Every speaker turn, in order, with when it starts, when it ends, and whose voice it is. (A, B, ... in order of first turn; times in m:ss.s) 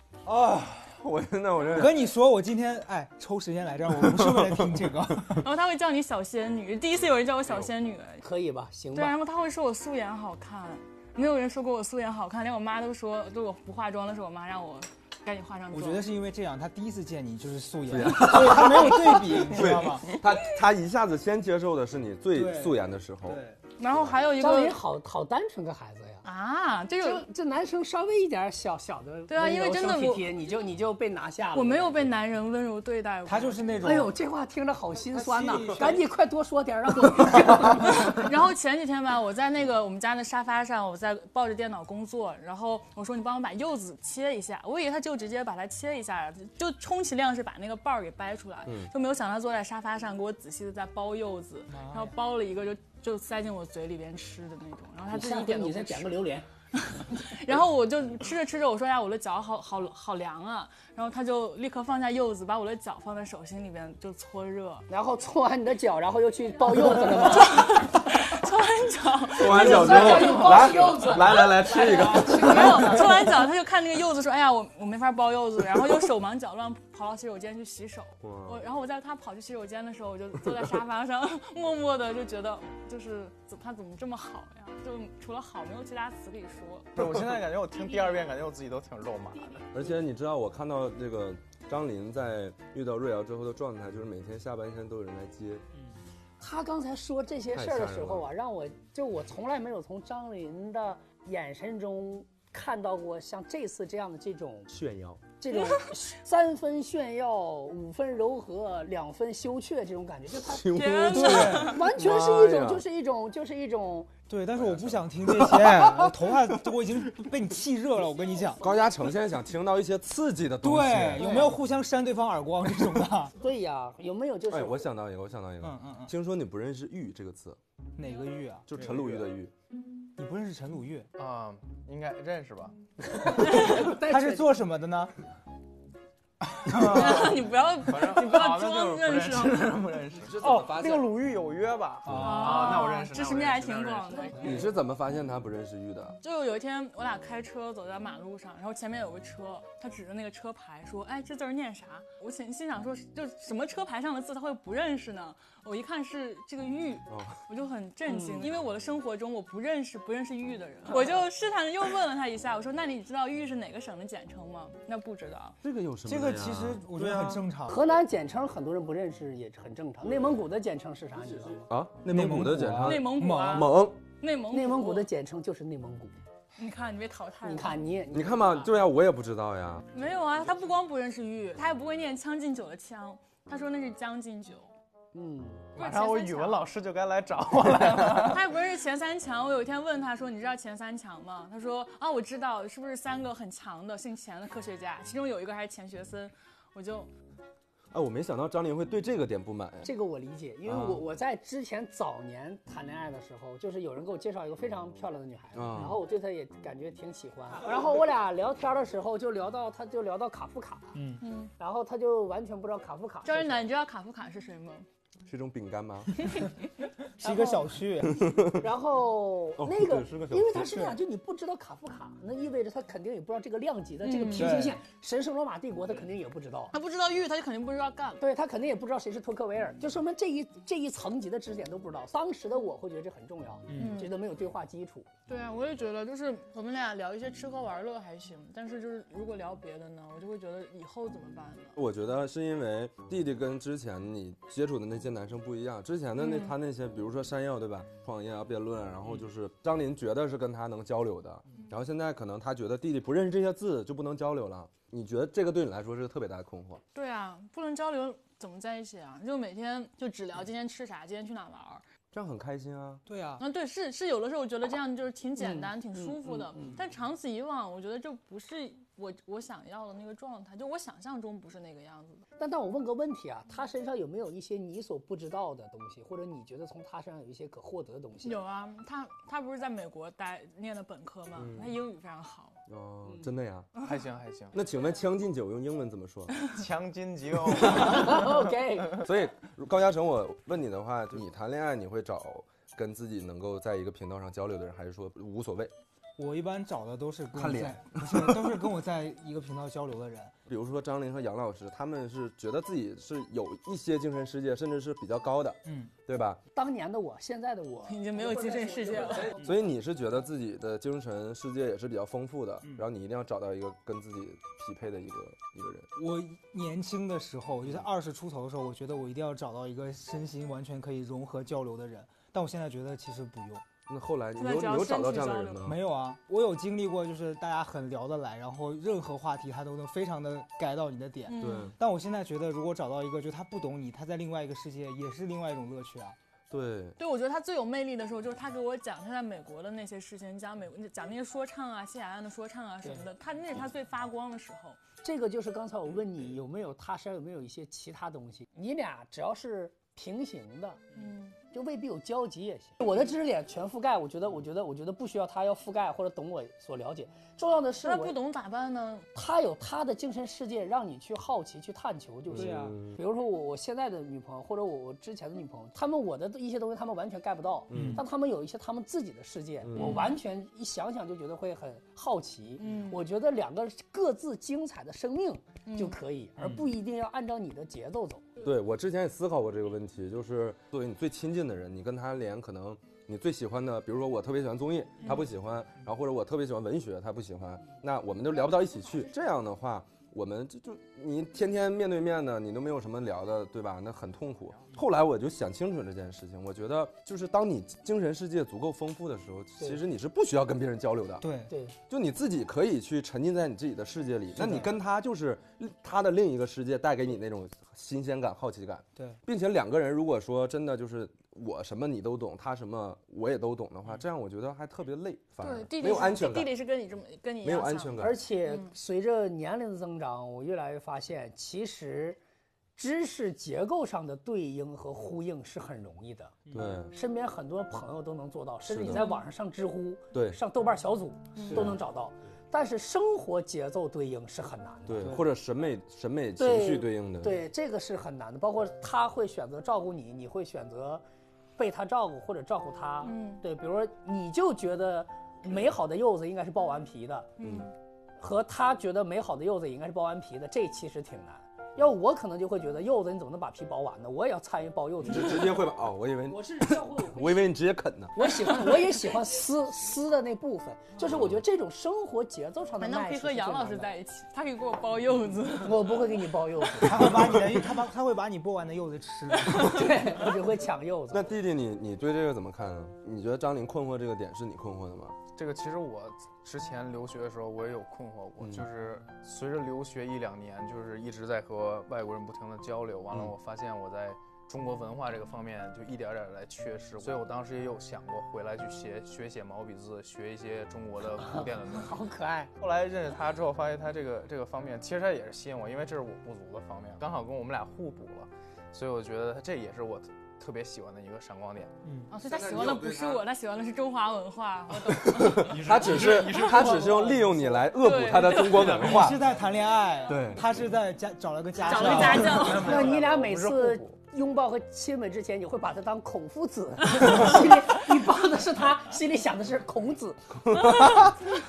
0:00.2-0:02.0 A
0:01.7-0:05.5 B
0:04.2-0:04.6 A
0:05.4-0:08.2 C
0:08.2-0:09.2 D
0:08.9-0:16.1 C
0:15.7-0:20.2 B
0:17.9-0:23.4 A
0:22.3-0:23.6 B
0:23.8-0:24.8 C
0:24.4-0:26.2 D
0:26.2-0:27.2 C
0:27.0-0:32.1 D
0:29.3-0:30.3 C
0:31.5-0:33.7 C
0:33.3-0:34.1 B
0:33.8-0:38.3 D
0:35.1-0:36.1 B
0:37.9-0:56.2 C
0:48.7-0:48.9 A
0:51.7-0:52.2 B
0:55.1-0:56.5 D
0:56.8-1:04.9 C
1:04.9-1:07.7 D
1:07.0-1:26.9 C
1:09.4-1:13.3 A
1:09.5-1:13.3 D
1:18.2-1:18.6 A
1:27.0-1:29.7 E
1:29.7-1:35.6 A
1:36.4-1:44.7 D
1:37.5-1:38.3 A
1:44.7-1:45.2 A
1:45.4-1:50.8 D
1:45.5-1:45.8 C
1:50.4-1:52.8 A
1:50.8-1:51.9 C
1:51.1-1:51.8 B
1:51.5-1:54.1 D
1:54.3-1:58.6 B
1:54.5-1:56.3 A
1:58.4-1:58.8 D
1:58.6-2:01.5 A
2:00.6-2:03.4 B
2:01.2-2:01.5 D
2:03.4-2:04.9 D
2:04.5-2:07.6 A
2:05.6-2:06.1 B
2:08.0-2:09.1 B
2:08.7-2:09.5 A
2:10.2-2:11.1 B
2:11.2-2:12.8 E
2:13.1-2:14.6 D
2:13.4-2:13.8 C
2:13.6-2:15.1 B
2:16.5-2:24.4 E
2:16.6-2:17.3 B
2:16.8-2:19.8 C
2:20.2-2:21.1 A
2:22.1-2:22.7 B
2:22.1-2:22.4 A
2:22.2-2:24.7 C
2:24.1-2:24.7 D
2:24.4-2:26.2 A
2:26.2-2:45.6 C
2:37.1-2:37.4 A
2:38.1-2:38.5 D
2:45.6-2:47.4 A
2:46.0-2:47.9 B
2:47.7-2:51.7 D
2:51.7-2:54.0 A
2:52.1-2:53.8 B
2:52.8-2:55.1 C
2:54.5-2:56.2 D
2:56.6-2:57.8 C
2:57.4-2:58.7 D
2:58.1-2:59.9 A
2:59.9-3:04.7 C
3:05.1-3:05.8 D
3:05.8-3:08.5 E
3:05.8-3:06.6 C
3:08.2-3:17.1 C
3:17.9-3:19.9 A
3:19.8-3:31.0 D
3:20.7-3:21.0 A
3:25.5-3:26.0 A
3:31.0-3:31.2 B
3:31.2-3:31.5 C
3:31.6-3:33.7 D
3:33.2-3:34.8 C
3:35.3-3:36.3 A
3:37.2-3:38.3 B
3:37.2-3:37.6 C
3:38.1-3:38.6 A
3:38.6-3:46.7 D
3:39.6-3:40.8 A
3:44.0-3:44.6 C
3:44.3-3:44.8 B
3:46.7-3:48.2 C
3:48.2-3:55.1 D
3:53.7-3:54.0 B
3:53.8-3:54.1 C
3:55.3-4:01.8 C
4:01.8-4:16.8 A
4:06.2-4:06.6 C
4:17.0-4:21.8 C
4:22.1-4:23.0 A
4:23.1-4:23.4 B
4:23.4-4:32.2 C
4:25.4-4:26.8 D
4:32.4-4:38.4 D
4:38.2-4:42.6 C
4:41.4-4:41.7 A
4:42.7-4:43.8 A
4:43.8-4:44.6 E
4:44.5-4:46.5 A
4:46.5-4:48.4 E
4:47.7-4:49.0 D
4:49.0-4:55.7 A
4:56.2-5:00.4 B
4:57.3-4:58.5 A
5:00.5-5:06.4 A
5:05.6-5:05.9 B
5:06.6-5:09.4 D
5:07.9-5:09.4 C
5:09.4-5:15.9 A
5:16.0-5:23.6 B
5:23.9-5:25.8 A
5:24.4-5:25.7 C
5:25.6-5:36.2 B
5:31.3-5:31.7 C
5:31.4-5:31.8 A
5:36.5-5:37.0 A
5:37.0-5:44.8 C
5:45.0-5:50.8 D
5:50.9-5:51.4 C
5:51.5-5:58.2 D
5:57.8-5:59.1 C
5:59.2-6:18.2 D
6:02.3-6:03.0 A
6:02.3-6:02.8 B
6:07.7-6:08.0 A
6:07.7-6:08.0 B
6:09.6-6:10.1 A
6:09.8-6:10.1 C
6:12.6-6:13.0 C
6:15.7-6:16.0 C
6:16.4-6:16.7 B
6:18.4-6:41.3 A
6:41.2-6:41.5 B
6:41.5-6:41.8 D
6:41.9-6:56.6 A
6:44.3-6:44.7 B
6:55.4-6:58.7 C
6:57.4-6:58.2 A
6:58.0-7:02.2 D
7:02.8-7:15.2 D
7:06.5-7:06.8 B
7:06.5-7:06.9 A
7:08.7-7:09.0 A
7:08.9-7:09.2 C
7:11.4-7:11.7 B
7:11.4-7:11.8 A
7:14.9-7:17.4 A
7:15.0-7:15.2 B
7:16.4-7:21.0 D
7:21.6-7:27.3 D
7:23.0-7:23.4 C
7:27.4-7:27.7 C
7:27.4-7:27.7 A
7:28.2-7:35.7 D
7:35.0-7:38.2 A
7:36.3-7:37.5 D
7:38.1-7:43.9 D
7:41.0-7:41.4 A
7:42.8-7:46.1 C
7:45.6-7:47.4 D
7:46.8-7:50.0 B
7:49.5-7:51.3 D
7:51.1-7:55.2 A
7:55.4-8:12.0 E
7:58.4-7:58.7 A
8:11.2-8:12.5 D
8:12.6-8:21.7 E
8:21.8-8:22.1 B
8:22.1-8:25.6 C
8:22.2-8:23.2 A
8:24.9-8:29.2 A
8:25.4-8:27.6 E
8:26.7-8:27.2 D
8:27.7-8:28.8 C
8:28.5-8:29.1 E
8:28.8-8:32.6 B
8:30.1-8:30.4 A
8:31.6-8:32.9 C
8:31.7-8:34.0 E
8:32.1-8:40.3 D
8:40.4-8:41.2 A
8:40.8-8:41.1 C